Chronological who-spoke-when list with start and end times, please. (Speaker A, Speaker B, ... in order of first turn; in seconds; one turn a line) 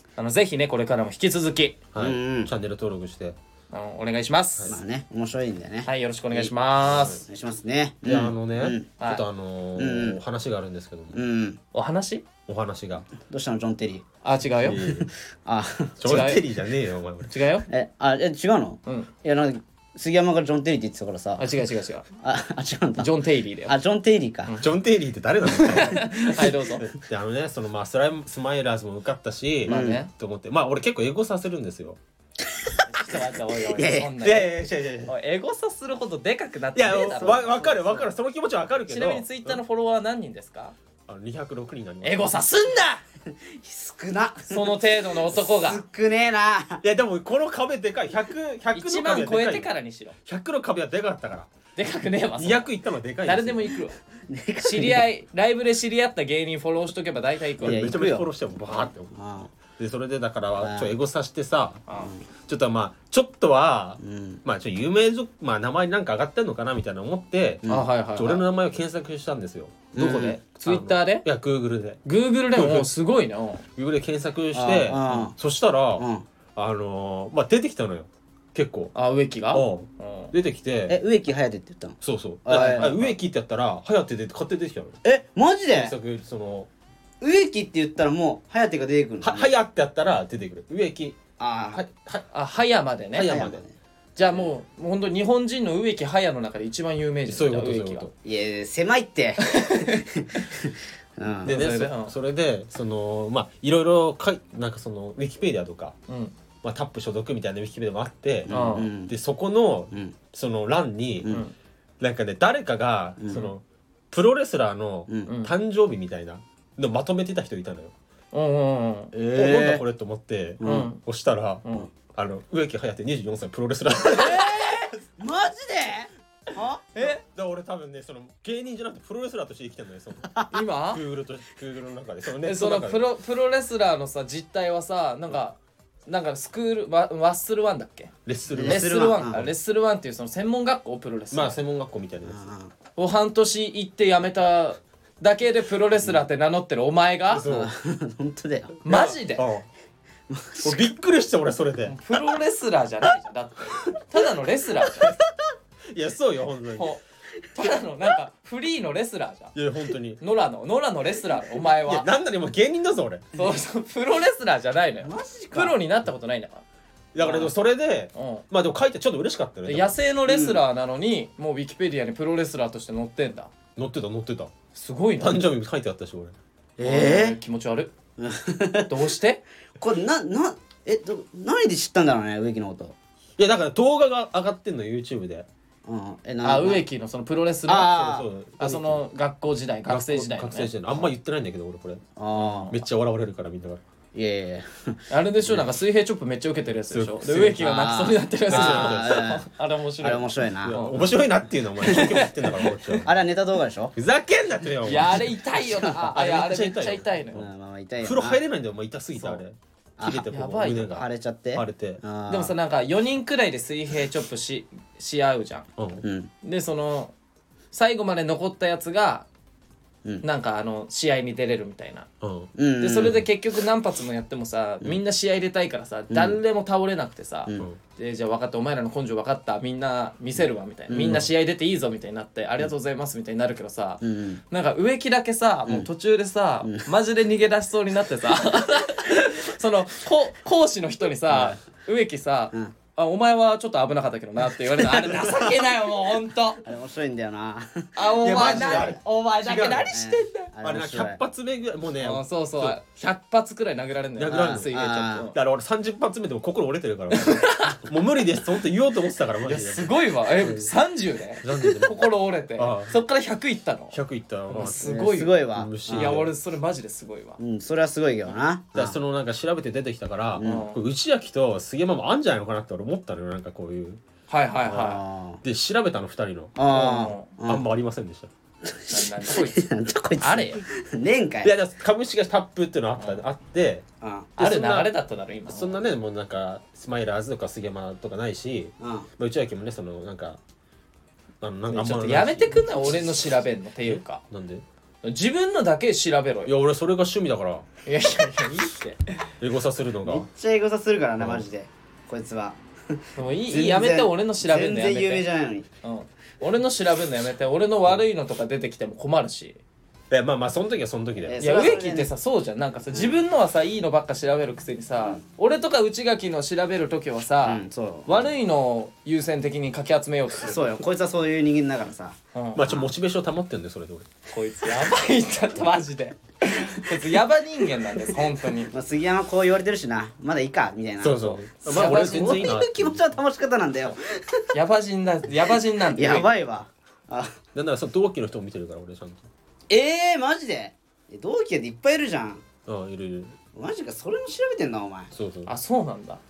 Speaker A: 0.2-1.8
Speaker B: 1.9-3.4
Speaker C: 2.0-2.5
Speaker A: 3.7-4.7
Speaker C: 4.7-8.9
Speaker A: 5.8-7.2
Speaker B: 6.9-7.2
Speaker B: 8.1-11.2
Speaker A: 9.0-9.2
Speaker C: 9.8-10.2
Speaker C: 11.1-11.6
Speaker A: 11.7-12.3
Speaker B: 12.5-13.1
Speaker C: 13.3-14.1
Speaker A: 14.2-14.9
Speaker B: 14.6-15.1
Speaker C: 14.9-16.2
Speaker B: 16.0-17.3
Speaker A: 16.0-16.4
Speaker A: 17.3-17.7
Speaker C: 17.7-21.4
Speaker A: 21.4-22.1
Speaker C: 22.2-23.1
Speaker A: 23.0-23.8
Speaker C: 23.7-24.5
Speaker B: 24.6-32.0
Speaker A: 25.5-26.9
Speaker A: 29.7-30.1
Speaker C: 29.7-30.0
Speaker C: 32.6-33.2
Speaker A: 32.8-34.5
Speaker C: 33.7-34.1
Speaker B: 34.2-35.1
Speaker A: 35.0-38.1
Speaker B: 36.8-39.6
Speaker C: 37.1-37.4
Speaker A: 38.9-40.8
Speaker B: 41.1-42.3
Speaker A: 42.0-43.0
Speaker C: 43.3-46.8
Speaker A: 44.5-45.8
Speaker B: 46.8-49.7
Speaker A: 48.7-50.2
Speaker B: 50.3-51.5
Speaker A: 51.8-52.7
Speaker B: 52.4-53.7
Speaker A: 53.2-54.0
Speaker C: 54.3-55.1
Speaker A: 54.6-57.9
Speaker B: 57.6-59.1
Speaker C: 57.6-58.3
Speaker C: 59.1-59.5
Speaker B: 59.7-61.8
Speaker C: 60.6-60.9
Speaker A: 61.9-62.1
Speaker B: 62.5-67.6
Speaker C: 64.0-64.4
Speaker A: 67.7-68.5
Speaker B: 68.2-72.0
Speaker C: 70.0-70.4
Speaker A: 70.0-71.3
Speaker A: 72.0-73.7
Speaker B: 72.5-72.9
Speaker B: 73.8-78.9
Speaker C: 74.5-75.3
Speaker C: 76.0-76.2
Speaker A: 78.9-80.3
Speaker B: 79.5-81.0
Speaker C: 80.9-83.0
Speaker B: 82.0-85.0
Speaker A: 82.5-83.1
Speaker C: 85.0-85.9
Speaker B: 85.7-86.7
Speaker C: 87.2-89.5
Speaker B: 89.2-91.2
Speaker C: 91.4-91.8
Speaker B: 91.7-92.2
Speaker A: 92.3-93.3
Speaker B: 93.1-93.6
Speaker C: 93.3-93.7
Speaker A: 94.2-98.1
Speaker B: 97.3-98.1
Speaker C: 98.2-101.6
Speaker A: 99.4-100.0
Speaker A: 101.5-102.1
Speaker B: 101.5-106.0
Speaker A: 106.1-106.3
Speaker B: 106.6-111.4
Speaker C: 108.5-109.1
Speaker A: 108.5-108.9
Speaker A: 111.3-111.5
Speaker B: 112.0-117.9
Speaker A: 115.3-115.5
Speaker A: 118.3-119.1
Speaker B: 119.1-124.6
Speaker C: 119.2-119.8
Speaker C: 120.6-120.9
Speaker A: 120.6-121.0
Speaker A: 121.6-121.9
Speaker C: 124.1-127.1
Speaker A: 127.0-127.2
Speaker B: 127.2-130.3
Speaker A: 130.5-131.0
Speaker B: 130.9-133.0
Speaker A: 132.4-141.6
Speaker B: 138.3-139.2
Speaker C: 138.5-139.5
Speaker B: 141.3-142.5
Speaker C: 142.3-142.7
Speaker A: 143.0-147.4
Speaker B: 147.3-147.7
Speaker C: 147.4-148.8
Speaker A: 148.8-149.5
Speaker B: 148.9-149.7
Speaker C: 150.3-150.9
Speaker B: 150.6-151.9
Speaker A: 151.9-155.2
Speaker B: 155.9-156.9
Speaker A: 156.8-157.0
Speaker A: 157.5-159.6
Speaker B: 159.6-160.2
Speaker A: 160.2-162.1
Speaker B: 161.8-163.3
Speaker A: 163.4-166.6
Speaker C: 165.0-165.8
Speaker B: 167.1-170.0
Speaker A: 167.2-167.5
Speaker A: 168.1-168.4
Speaker A: 169.7-173.5
Speaker C: 170.3-170.6
Speaker B: 173.8-174.5
Speaker A: 174.7-175.4
Speaker B: 175.2-176.4
Speaker C: 176.8-177.4
Speaker A: 176.8-177.9
Speaker C: 178.2-179.0
Speaker A: 178.9-179.4
Speaker C: 179.8-183.0
Speaker B: 183.4-185.5
Speaker C: 185.9-186.8
Speaker A: 186.4-188.1
Speaker C: 187.7-188.3
Speaker B: 187.9-189.0
Speaker A: 188.6-190.7
Speaker B: 189.9-192.0
Speaker C: 192.2-192.8
Speaker A: 192.4-192.8
Speaker B: 192.7-193.8
Speaker C: 194.1-195.0
Speaker A: 195.1-201.1
Speaker B: 196.9-197.6
Speaker C: 197.6-199.5
Speaker B: 198.5-199.2
Speaker C: 200.0-200.8
Speaker B: 200.6-203.1
Speaker A: 201.8-202.6
Speaker C: 203.1-203.9
Speaker B: 203.9-205.4
Speaker A: 204.8-207.4
Speaker C: 205.7-206.0
Speaker B: 206.0-207.5
Speaker C: 207.3-208.4
Speaker B: 208.0-212.0
Speaker C: 210.0-210.3
Speaker A: 210.3-210.9
Speaker C: 210.8-212.5
Speaker A: 212.3-215.7
Speaker B: 215.8-216.0
Speaker C: 216.0-216.3
Speaker A: 216.4-217.1
Speaker A: 217.7-219.3
Speaker A: 220.2-222.1
Speaker B: 222.2-222.5
Speaker C: 222.6-223.2
Speaker A: 222.8-246.6
Speaker C: 226.1-226.4
Speaker C: 230.9-231.2
Speaker C: 234.0-234.4
Speaker C: 241.3-241.6
Speaker C: 244.8-245.3
Speaker C: 246.6-249.0
Speaker A: 248.0-250.5
Speaker B: 248.2-249.9
Speaker C: 249.9-251.2
Speaker B: 250.6-252.8
Speaker A: 252.0-255.3
Speaker B: 254.2-254.7
Speaker C: 254.3-255.3
Speaker B: 255.3-260.7
Speaker A: 257.1-257.8
Speaker A: 259.4-264.0
Speaker B: 261.4-262.0
Speaker B: 262.6-262.9
Speaker B: 263.9-265.0
Speaker A: 264.5-267.4
Speaker C: 264.6-266.2
Speaker B: 265.5-266.3
Speaker C: 267.4-269.0
Speaker B: 268.8-274.0
Speaker C: 270.4-270.7
Speaker A: 270.4-270.8
Speaker A: 274.3-275.0
Speaker C: 274.7-275.4
Speaker B: 275.4-276.6
Speaker C: 276.6-277.6
Speaker A: 276.7-277.3
Speaker B: 277.5-278.3
Speaker C: 278.7-281.5
Speaker A: 278.9-279.6
Speaker A: 280.2-280.6
Speaker B: 281.4-283.9
Speaker C: 284.0-284.3
Speaker B: 284.4-284.9
Speaker A: 284.4-285.8
Speaker B: 285.5-290.4
Speaker C: 288.8-289.1
Speaker B: 291.4-292.9
Speaker A: 291.7-294.2
Speaker B: 293.9-294.6
Speaker A: 295.0-296.5
Speaker B: 296.5-297.7
Speaker A: 297.9-299.1
Speaker B: 299.4-300.3
Speaker C: 300.0-305.7
Speaker B: 301.2-301.4
Speaker A: 303.2-305.2
Speaker A: 305.8-309.6
Speaker B: 310.1-311.4
Speaker C: 311.3-312.1
Speaker A: 311.4-320.8
Speaker C: 312.9-313.2
Speaker C: 317.4-318.3
Speaker C: 320.4-322.9
Speaker A: 322.3-322.6
Speaker B: 322.6-324.1
Speaker A: 324.3-328.7
Speaker C: 328.7-334.5
Speaker B: 331.0-333.0
Speaker A: 331.2-332.5
Speaker A: 334.5-336.3
Speaker C: 335.9-337.4
Speaker B: 337.5-339.3
Speaker C: 339.7-342.4
Speaker B: 342.7-343.4
Speaker C: 343.5-345.1
Speaker B: 345.1-345.5
Speaker A: 345.5-346.2